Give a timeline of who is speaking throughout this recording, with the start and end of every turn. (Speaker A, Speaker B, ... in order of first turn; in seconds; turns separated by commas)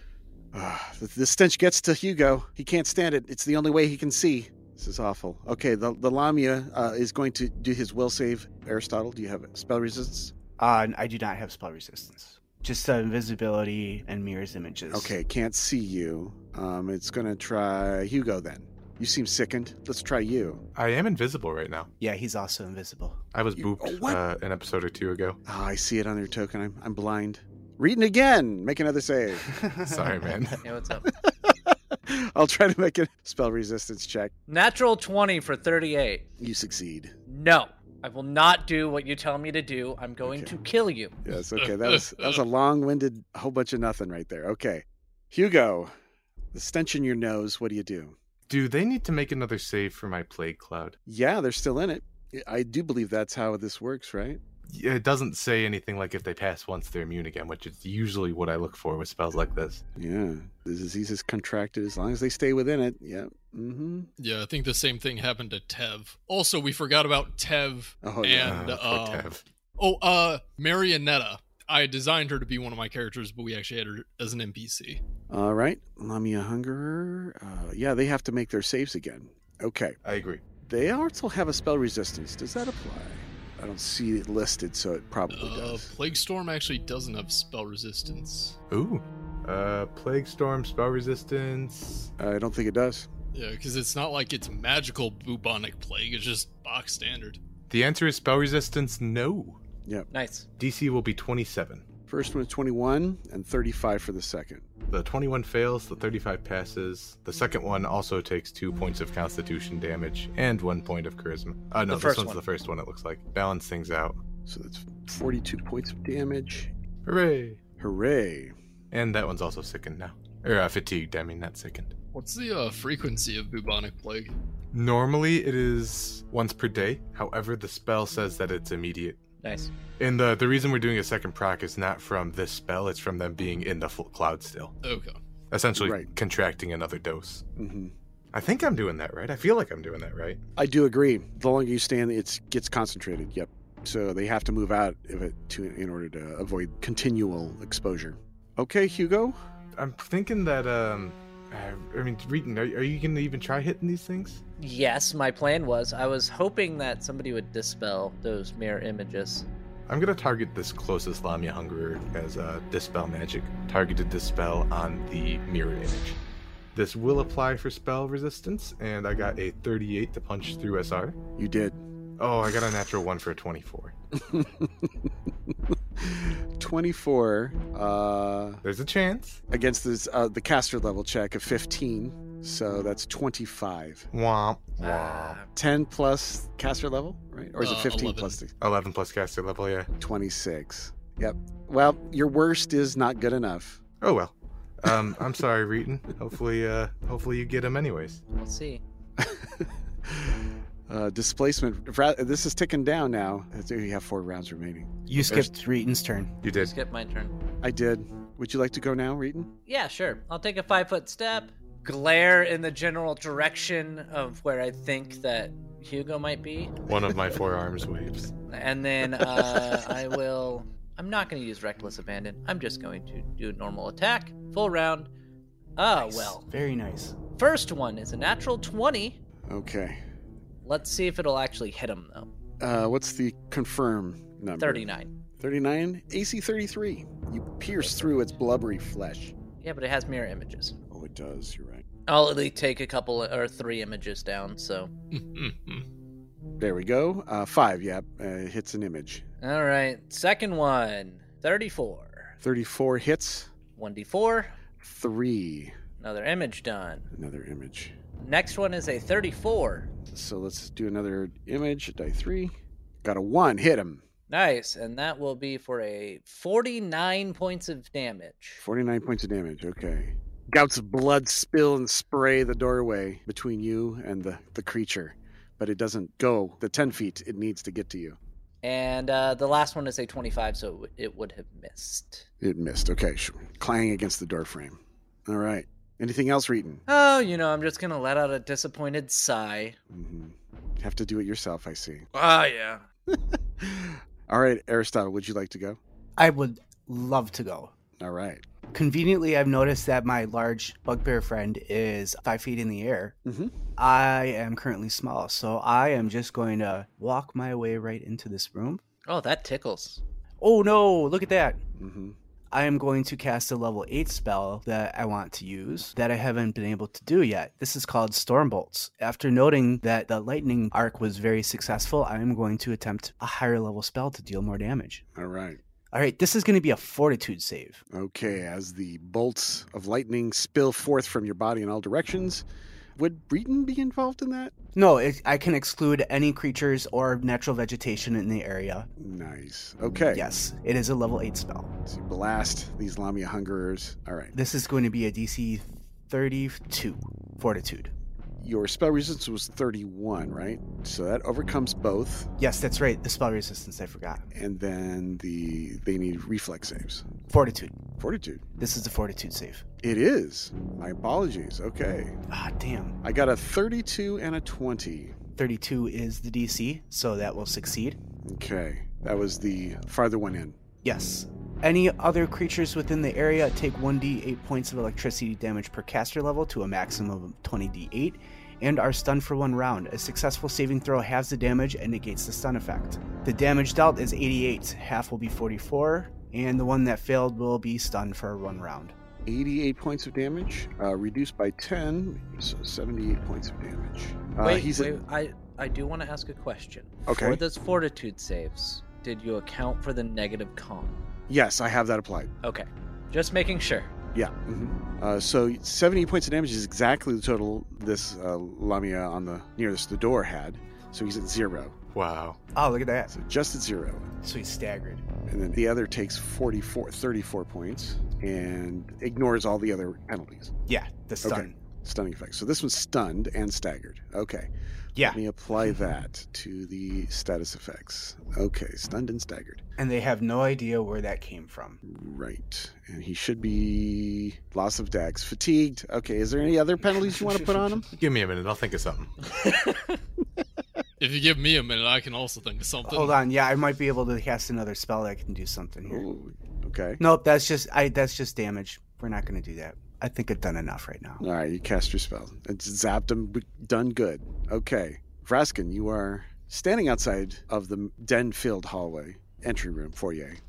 Speaker A: 0.5-10.3, Speaker B: 10.6-15.1, Speaker A: 14.9-20.6, Speaker C: 20.7-21.9, Speaker B: 22.0-23.2, Speaker C: 23.3-25.4, Speaker A: 23.6-24.2, Speaker A: 25.4-29.5, Speaker B: 29.4-30.5, Speaker C: 29.9-30.6, Speaker D: 30.6-31.1, Speaker A: 31.1-34.3, Speaker D: 34.5-36.2, Speaker A: 36.4-37.1, Speaker D: 37.3-41.1, Speaker A: 40.2-40.5, Speaker A: 41.2-45.9, Speaker E: 41.5-42.4, Speaker A: 46.5-48.1, Speaker C: 48.5-51.0, Speaker A: 51.0-54.4, Speaker C: 54.7-59.8, Speaker A: 60.0-64.1, Speaker E: 64.2-75.0, Speaker A: 68.0-68.6, Speaker C: 68.4-69.4, Speaker A: 75.3-80.0, Speaker C: 80.0-80.4, Speaker A: 80.6-85.9, Speaker E: 85.3-88.6, Speaker C: 88.7-92.1, Speaker A: 92.2-93.1, Speaker E: 93.3-97.4, Speaker C: 97.7-99.6, Speaker D: 100.1-100.5, Speaker C: 100.6-101.8, Speaker A: 102.1-104.7, Speaker C: 104.9-114.2, Speaker D: 111.9-112.4, Speaker A: 114.5-116.7, Speaker C: 117.0-117.6, Speaker A: 117.8-118.5, Speaker C: 118.9-121.9, Speaker E: 122.1-124.3, Speaker C: 124.7-129.2, Speaker D: 129.4-129.7, Speaker C: 130.0-134.7, Speaker E: 134.8-135.2, Speaker C: 135.5-137.4, Speaker A: 135.8-136.1, Speaker A: 137.6-137.9, Speaker C: 138.3-140.4, Speaker A: 140.6-149.3, Speaker C: 149.8-154.4, Speaker D: 154.6-159.5, Speaker C: 159.9-166.2, Speaker C: 166.7-171.2, Speaker A: 171.4-171.8, Speaker C: 172.2-173.9, Speaker A: 174.2-174.9, Speaker A: 176.0-178.6, Speaker C: 178.6-179.4, Speaker A: 179.5-184.1, Speaker C: 184.1-185.4, Speaker D: 184.8-185.5, Speaker A: 185.5-188.5, Speaker E: 187.6-188.4, Speaker C: 188.6-189.9, Speaker A: 190.0-193.8, Speaker C: 194.0-198.2, Speaker D: 198.3-198.8, Speaker A: 199.2-205.5, Speaker B: 205.1-206.3, Speaker C: 206.4-206.7, Speaker D: 206.5-207.3, Speaker A: 207.6-209.5, Speaker D: 209.7-216.7, Speaker C: 216.9-218.3, Speaker D: 218.5-225.1, Speaker D: 225.8-226.4, Speaker B: 226.0-227.1, Speaker D: 227.3-229.2, Speaker A: 229.5-230.0, Speaker D: 230.6-232.3, Speaker A: 232.6-234.8, Speaker D: 234.6-235.1, Speaker A: 235.4-239.3, Speaker D: 237.7-238.2, Speaker D: 239.6-240.7, Speaker A: 240.9-241.8, Speaker D: 242.1-244.9, Speaker E: 245.1-245.8, Speaker A: 246.6-249.2, Speaker D: 249.4-252.3, Speaker A: 252.4-253.5, Speaker D: 253.8-254.5, Speaker A: 254.8-255.8, Speaker D: 256.0-257.1, Speaker A: 257.1-257.9, Speaker D: 258.2-259.9, Speaker A: 260.1-264.0, Speaker D: 264.3-268.6, Speaker A: 268.6-278.2, Speaker D: 278.6-282.2, Speaker A: 282.4-286.8, Speaker D: 286.9-289.8, Speaker A: 289.9-292.1, Speaker D: 292.1-292.8, Speaker A: 293.1-295.8, Speaker B: 296.2-297.7, Speaker A: 298.0-298.4, Speaker B: 298.7-303.1, Speaker A: 303.2-303.5, Speaker B: 303.8-308.8, Speaker D: 309.1-310.0, Speaker B: 310.4-311.6, Speaker A: 311.8-312.2, Speaker B: 312.5-325.0, Speaker A: 325.1-325.6, Speaker B: 325.9-327.8, Speaker A: 327.9-332.4, Speaker A: 332.9-334.5, Speaker B: 334.7-338.9, Speaker A: 339.0-340.2, Speaker B: 340.1-341.7, Speaker A: 341.9-344.3, Speaker B: 344.3-347.9, Speaker A: 348.4-352.3, Speaker B: 352.4-354.2, Speaker A: 354.3-357.1, Speaker B: 357.3-357.8, Speaker A: 358.0-358.5, Speaker B: 358.6-359.6, Speaker A: 359.8-362.2, Speaker B: 362.3-363.0, Speaker A: 363.0-365.1, Speaker B: 365.4-368.0, Speaker A: 368.2-370.6, Speaker B: 370.8-388.9, Speaker A: 389.2-394.9, Speaker D: 394.4-401.0, Speaker A: 397.1-397.4, Speaker A: 401.3-402.3, Speaker D: 402.4-403.9, Speaker A: 404.1-411.8, Speaker C: 411.9-412.4, Speaker B: 412.5-413.1, Speaker A: 413.1-414.1, Speaker B: 414.2-415.0, Speaker A: 415.3-420.5, Speaker B: 420.7-421.5, Speaker A: 421.2-424.5, Speaker A: 425.0-429.6, Speaker B: 429.8-431.8, Speaker A: 431.8-437.9, Speaker C: 437.9-439.1, Speaker D: 439.4-439.9, Speaker E: 441.0-443.1, Speaker B: 442.8-446.0, Speaker A: 445.9-447.0, Speaker B: 447.0-451.2, Speaker A: 451.2-460.4